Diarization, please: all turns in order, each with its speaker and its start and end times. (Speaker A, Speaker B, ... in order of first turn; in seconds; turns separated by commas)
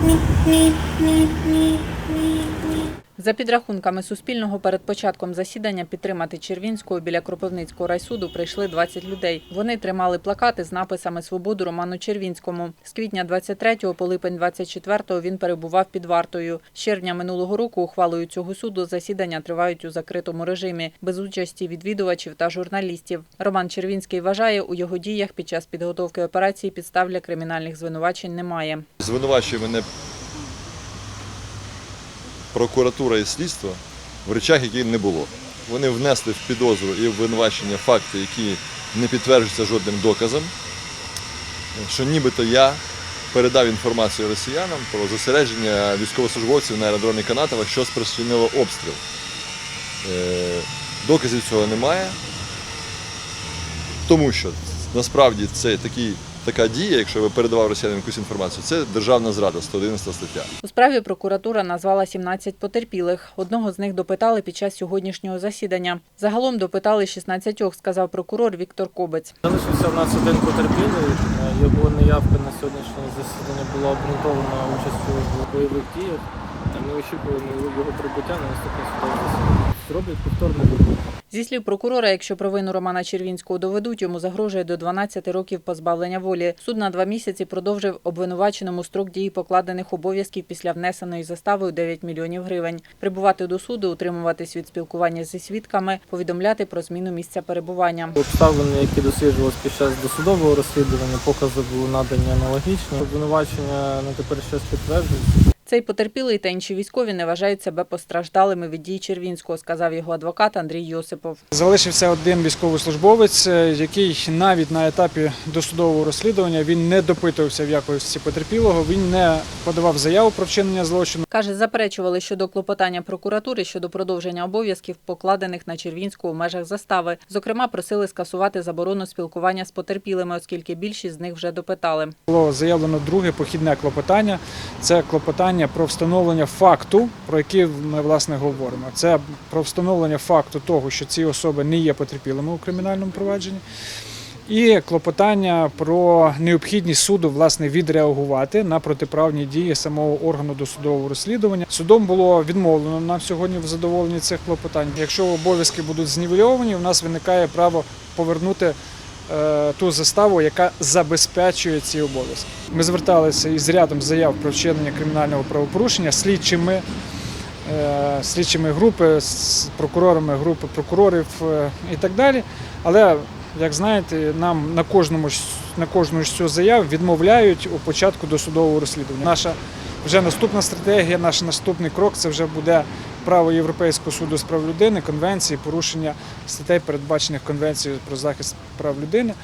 Speaker A: 3.2-28.9, Speaker B: 29.0-29.9, Speaker B: 32.5-40.5, Speaker B: 41.8-49.0, Speaker B: 50.0-52.2, Speaker B: 54.1-60.5, Speaker A: 60.6-69.4, Speaker C: 69.4-81.0, Speaker A: 81.3-98.2, Speaker C: 98.2-105.3, Speaker A: 105.7-111.4, Speaker D: 111.5-121.2, Speaker A: 121.3-132.2, Speaker D: 132.3-143.6, Speaker D: 144.5-158.8, Speaker D: 159.3-166.8, Speaker D: 167.7-189.3